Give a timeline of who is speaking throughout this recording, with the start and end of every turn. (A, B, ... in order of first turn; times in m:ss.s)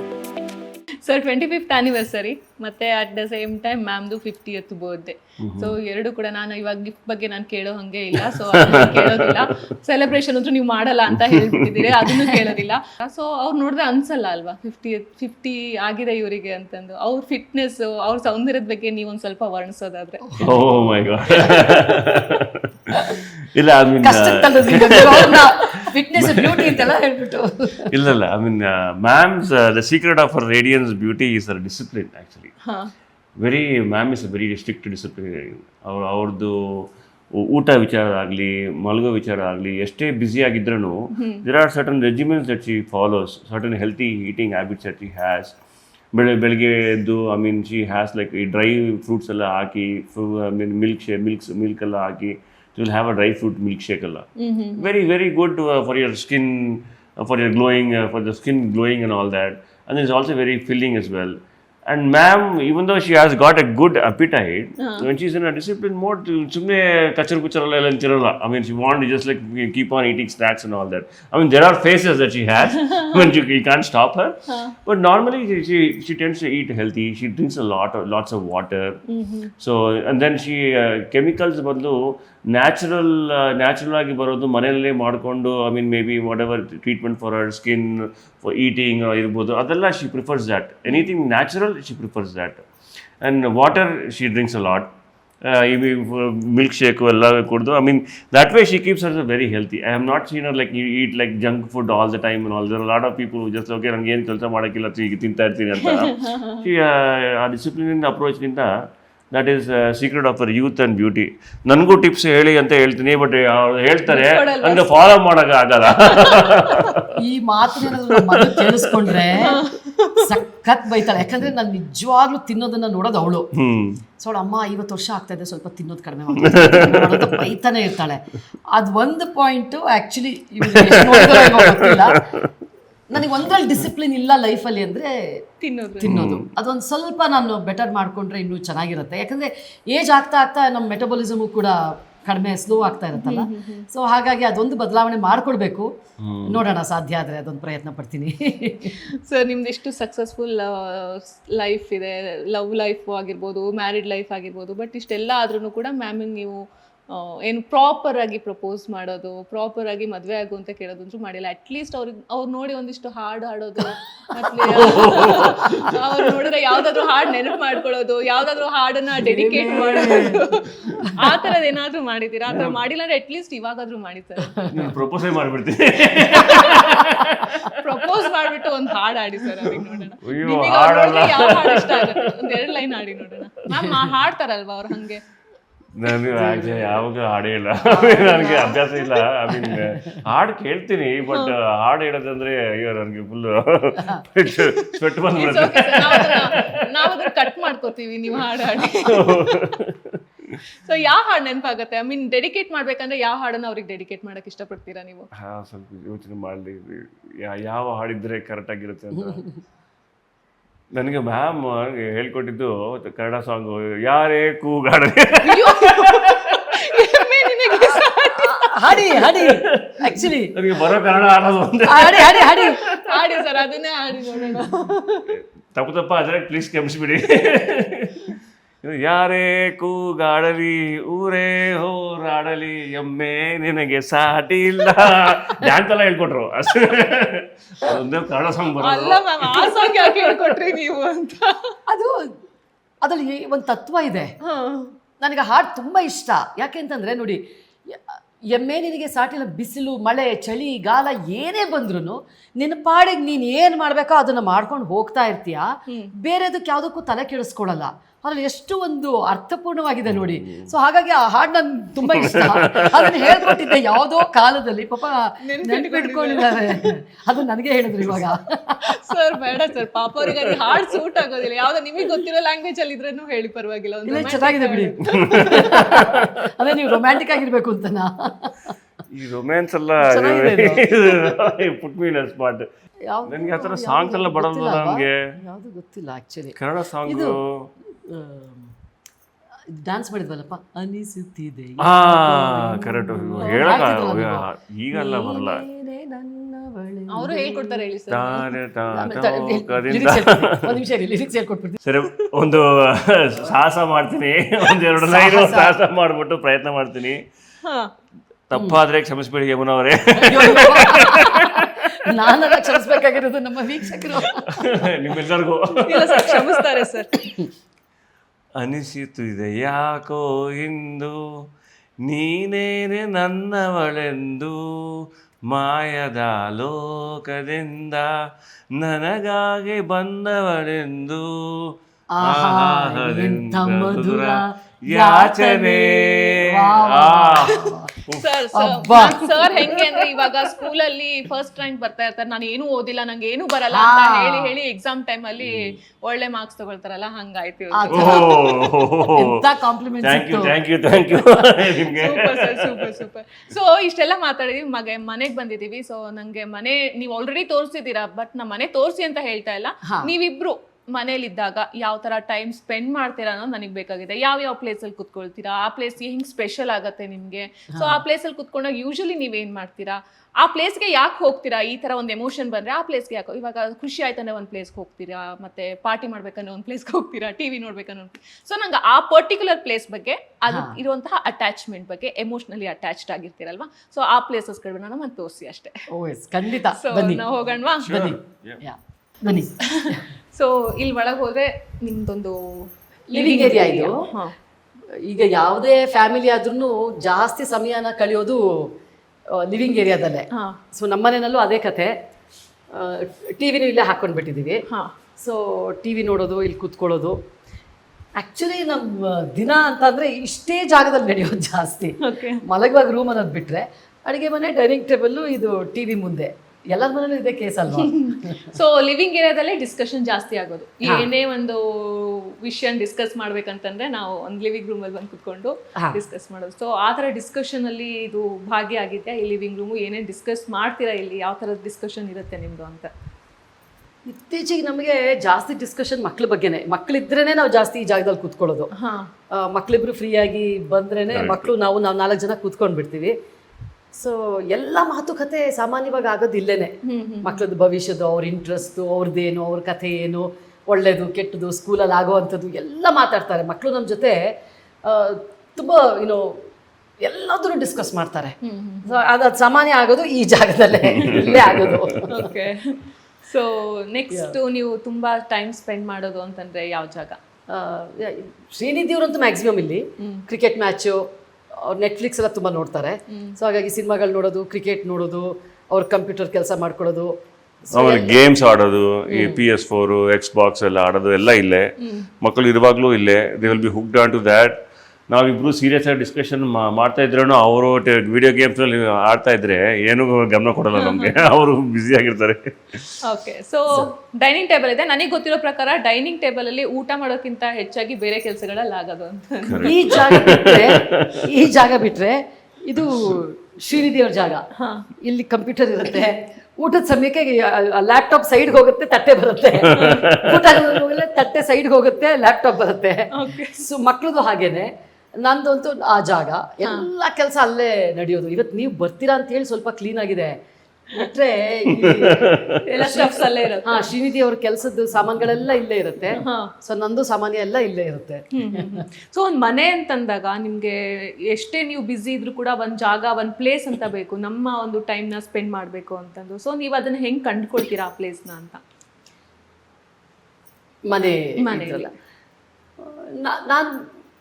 0:01.0-0:20.4 A
0:05.4-0:05.7 B
0:08.3-0:09.4 B
0:11.2-0:12.1 B
0:20.3-0:20.8 C
0:20.4-0:25.5 B
0:21.3-0:21.7 C
0:24.0-0:27.9 C
0:26.1-0:26.9 B
0:27.9-0:32.5 B
0:32.6-0:32.9 A
0:33.4-0:45.5 B
0:41.1-0:41.4 A
0:46.1-0:54.2 B
0:54.4-0:54.9 A
0:54.8-1:19.0 B
1:04.8-1:05.1 A
1:12.8-1:13.2 A
1:14.5-1:14.8 A
1:19.1-1:19.5 A
1:19.6-1:32.6 B
1:30.9-1:31.1 A
1:33.2-1:34.9 B
1:35.4-1:48.7 B
1:45.8-1:46.7 A
1:49.3-1:57.0 B
1:54.1-1:55.0 A
1:56.3-1:56.8 A
1:57.1-1:59.6 C
1:57.8-1:59.3 B
1:59.4-2:00.3 A
2:00.2-2:03.5 C
2:03.6-2:04.0 B
2:04.2-2:08.2 C
2:06.4-2:07.4 B
2:08.7-2:12.2 C
2:10.7-2:12.2 B
2:13.1-2:15.1 C
2:15.6-2:16.2 A
2:16.0-2:25.9 C
2:16.0-2:16.5 B
2:23.1-2:23.9 A
2:26.2-2:26.6 B
2:26.5-2:28.9 C
2:29.2-2:36.6 A
2:37.1-2:54.6 A
2:44.8-2:45.9 B
2:49.2-2:50.4 C
2:52.5-2:52.8 B
2:54.7-2:57.8 B
2:56.3-2:56.9 A
2:57.7-3:05.2 A
2:59.6-3:02.7 B
3:03.7-3:04.0 C
3:06.0-3:17.7 B
3:06.3-3:07.0 C
3:07.9-3:08.9 C
3:08.2-3:08.8 A
3:09.5-3:10.1 C
3:15.3-3:19.7 A
3:19.0-3:20.6 B
3:20.8-3:25.3 A
3:25.4-3:29.4 B
3:29.2-3:29.4 C
3:30.9-3:36.6 B
3:35.4-3:39.0 A
3:37.9-3:40.5 C
3:39.2-3:43.2 B
3:41.8-3:42.8 C
3:42.7-3:45.3 A
3:45.3-3:59.8 B
3:58.8-4:01.8 A
3:59.8-4:00.6 C
4:01.9-4:02.3 C
4:03.0-4:04.3 C
4:04.4-4:04.9 A
4:05.2-4:08.0 C
4:08.5-4:15.7 C
4:16.2-4:28.8 C
4:20.1-4:20.7 B
4:22.1-4:23.8 B
4:25.4-4:26.6 A
4:28.9-4:36.0 A
4:30.5-4:30.8 B
4:34.1-4:38.7 C
4:35.2-4:36.3 B
4:39.1-4:42.6 B
4:40.0-4:40.8 C
4:43.1-4:46.6 C
4:43.2-4:45.2 B
4:46.6-4:47.7 B
4:47.1-4:47.3 C
4:48.1-4:48.7 C
4:49.8-4:57.8 C
4:51.8-4:55.6 B
4:53.4-4:53.8 A
4:57.1-4:58.5 A
4:58.1-5:00.8 B
4:58.9-5:01.8 C
5:01.8-5:07.2 B
5:04.9-5:05.8 C
5:07.6-5:07.9 A
5:08.5-5:11.9 B
5:10.2-5:14.7 C
5:12.6-5:13.0 B
5:14.5-5:16.6 B
5:15.9-5:17.3 A
5:18.6-5:21.2 B
5:22.1-5:28.1 B
5:28.8-5:38.3 B
5:32.1-5:37.9 C
5:38.2-5:48.3 A
5:38.5-5:40.1 C
5:43.7-5:44.5 C
5:45.4-5:45.7 B
5:47.7-5:50.6 C
5:47.9-5:49.4 B
5:50.0-5:52.9 B
5:51.9-6:25.8 A
5:59.8-6:00.1 C
6:07.7-6:08.0 C
6:20.5-6:20.8 C
6:25.9-6:27.2 C
6:26.7-6:28.0 A
6:27.8-6:28.6 B
6:27.8-6:30.0 C
6:29.7-6:34.3 A
6:33.1-6:34.0 C
6:35.0-6:38.7 C
6:39.4-6:41.9 C
6:42.7-6:44.6 C
6:45.2-6:47.2 C
6:48.2-6:58.6 C
6:52.0-6:52.4 A
6:57.8-7:12.9 A
7:00.8-7:01.1 C
7:14.1-7:18.7 C
7:18.8-7:19.1 A
7:19.3-7:23.1 C
7:21.1-7:21.5 B
7:23.9-7:34.3 C
7:26.8-7:27.4 A
7:34.8-7:36.4 C
7:37.0-7:42.3 C
7:38.4-7:39.0 A
7:40.9-7:41.8 B
7:42.1-7:47.2 A
7:44.1-7:44.4 C
7:47.5-7:51.0 C
7:50.0-7:50.3 A
7:51.6-7:57.1 C
7:53.1-7:53.4 A
7:57.6-7:58.4 C
7:57.7-8:12.9 B
7:59.1-7:59.4 C
8:01.8-8:02.1 A
8:10.8-8:11.1 A
8:13.0-8:20.1 A
8:19.5-8:21.3 B
8:19.6-8:24.4 C
8:24.6-8:24.9 A
8:25.0-8:34.7 C
8:29.7-8:30.8 B
8:29.8-8:30.1 A
8:33.1-8:33.6 A
8:35.2-8:40.4 C
8:40.9-8:48.8 C
8:41.8-8:42.6 B
8:42.6-8:43.9 A
8:46.2-8:46.5 A
8:48.3-8:58.6 A
9:00.9-9:01.9 C
9:01.4-9:01.9 A
9:02.8-9:03.8 C